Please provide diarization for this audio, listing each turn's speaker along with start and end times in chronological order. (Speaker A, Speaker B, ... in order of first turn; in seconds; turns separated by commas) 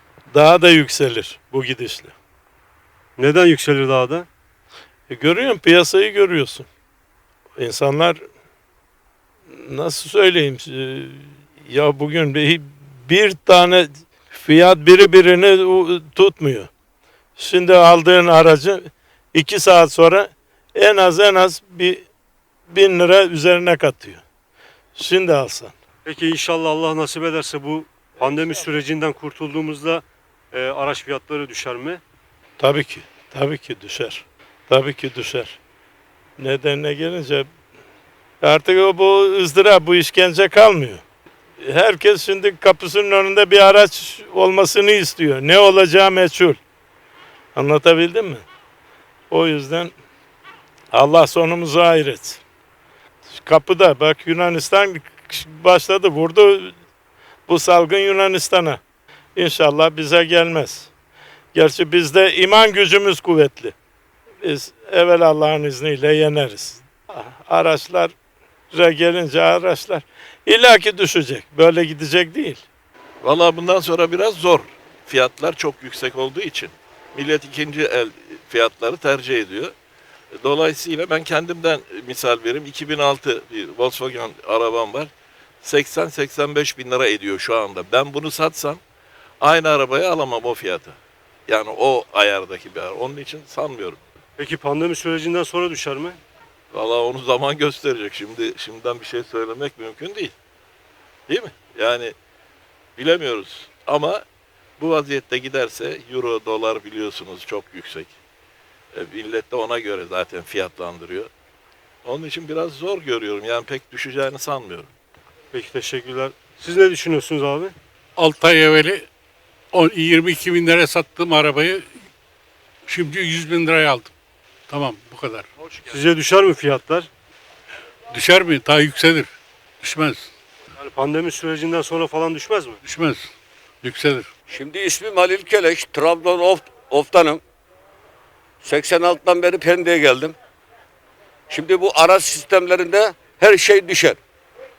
Speaker A: 0.3-2.1, Speaker B: 3.2-4.3, Speaker A: 5.1-6.7, Speaker A: 7.6-8.2, Speaker A: 9.6-16.7, Speaker A: 17.4-22.1, Speaker A: 22.7-24.2, Speaker A: 25.0-25.7, Speaker B: 26.1-32.0, Speaker A: 32.6-35.6, Speaker A: 36.4-37.5, Speaker A: 38.4-41.0, Speaker A: 41.6-46.6, Speaker A: 47.6-48.4, Speaker A: 49.3-49.9, Speaker A: 50.9-52.4, Speaker A: 53.3-56.8, Speaker A: 57.5-58.8, Speaker A: 59.4-60.9, Speaker A: 61.5-63.7, Speaker A: 64.4-68.1, Speaker A: 68.7-72.6, Speaker C: 73.2-79.7, Speaker C: 80.4-85.1, Speaker C: 85.6-88.8, Speaker C: 89.4-91.0, Speaker C: 91.5-94.0, Speaker B: 94.4-96.2, Speaker C: 96.7-100.3, Speaker C: 101.3-102.1, Speaker C: 103.0-104.2, Speaker C: 104.8-108.1, Speaker C: 109.0-111.3, Speaker C: 112.0-114.9, Speaker B: 115.5-117.8, Speaker D: 118.2-119.1, Speaker D: 119.7-121.9, Speaker D: 122.9-124.1, Speaker D: 124.7-125.5, Speaker B: 125.8-127.1, Speaker D: 128.1-129.3, Speaker D: 129.8-130.3, Speaker B: 130.8-132.8, Speaker D: 132.8-133.3, Speaker D: 133.8-134.3, Speaker E: 134.5-137.4, Speaker E: 138.6-140.3, Speaker E: 141.5-144.2